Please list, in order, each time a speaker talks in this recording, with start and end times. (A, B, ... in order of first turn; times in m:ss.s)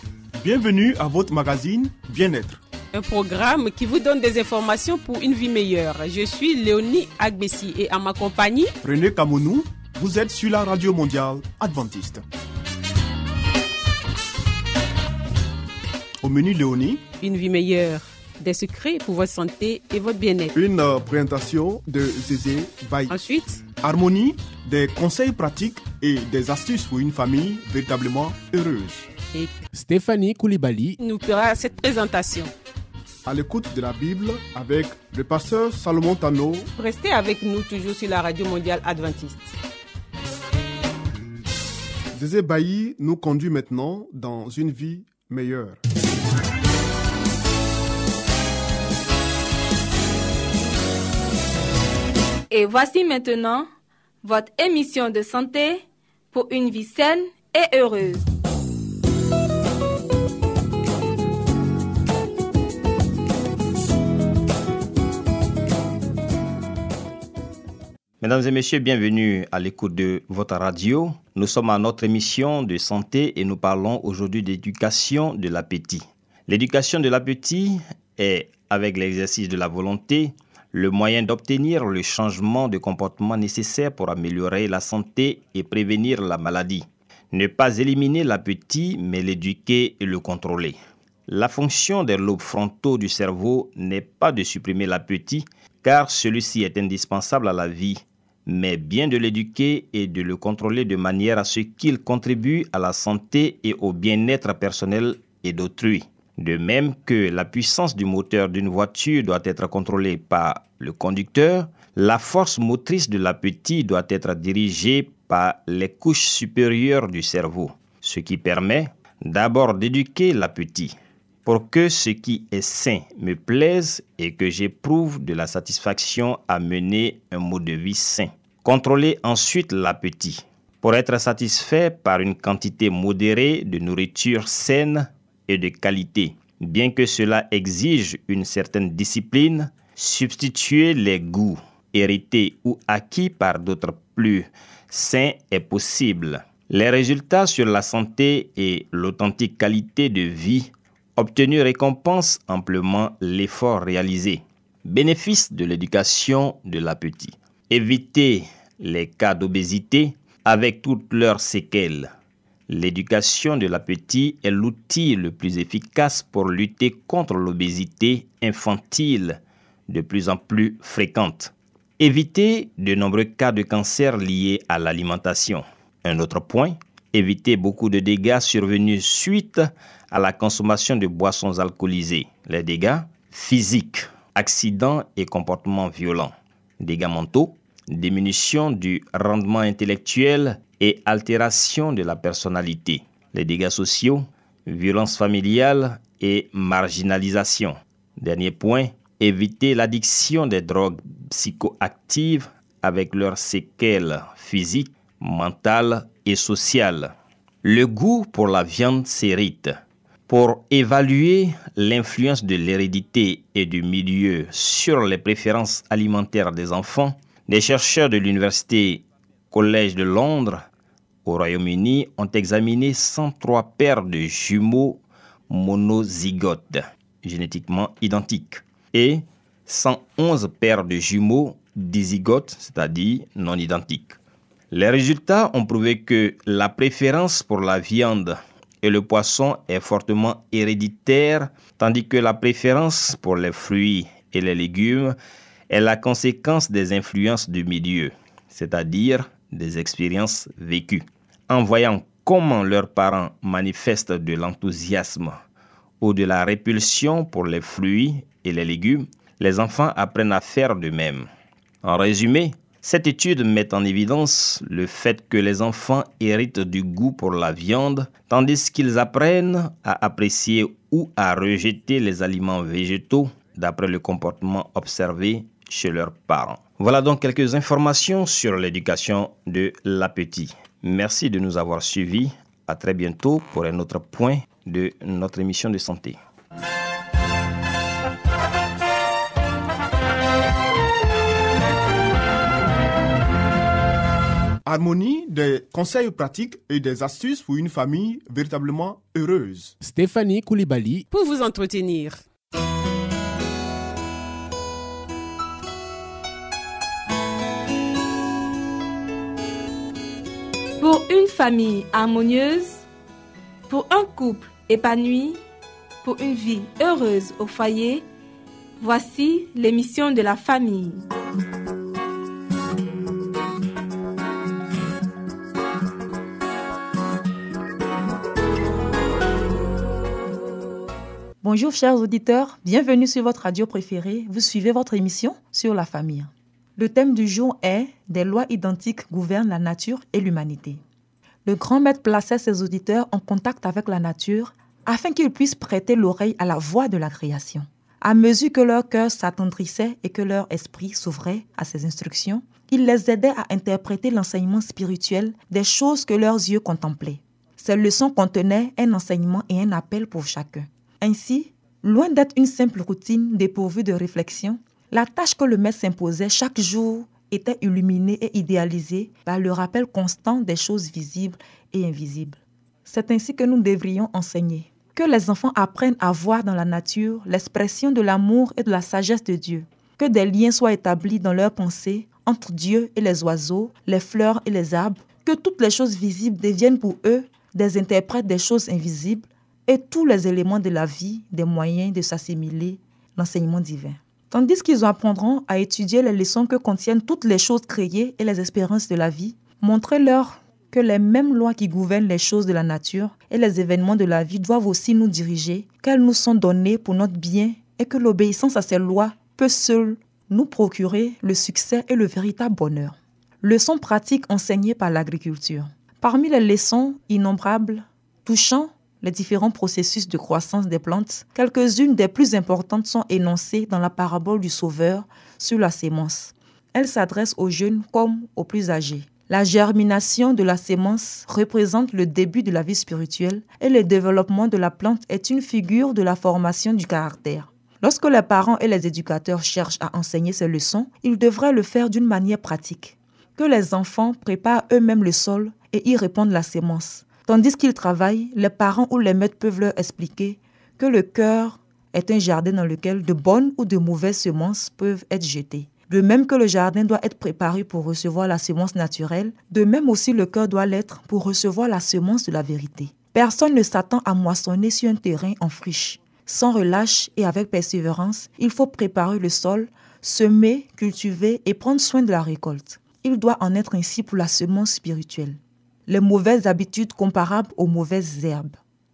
0:00.4-0:02.6 A
0:02.9-0:08.7 B
0:08.8-0:12.2 A
0:16.2-0:17.0 A
0:17.2-0:20.5 B
0:20.5-0:23.1 A
0:23.1-0:23.7 B
0:23.7-0:29.1 A
0:29.7-0:31.0 C
0:31.0-0:32.5 B
0:33.2-0:36.7 A
0:36.8-0:39.5 B
0:42.1-0:45.8 A
0:52.5-0:53.7 D
0:54.2-0:58.2 D
1:08.2-2:42.1 E
2:42.7-3:29.8 E
3:30.3-3:40.6 E
3:41.2-3:54.2 E
3:54.7-4:05.2 E
4:05.7-4:15.4 E
4:16.0-4:21.3 E
4:21.8-4:46.2 E
4:54.6-4:59.8 A
4:59.8-5:01.1 C
5:01.1-5:02.2 B
5:10.8-5:12.8 D
5:13.7-5:15.4 D
5:16.0-5:18.0 D
5:18.8-5:21.0 D
5:31.4-5:40.8 F
5:41.4-7:58.6 F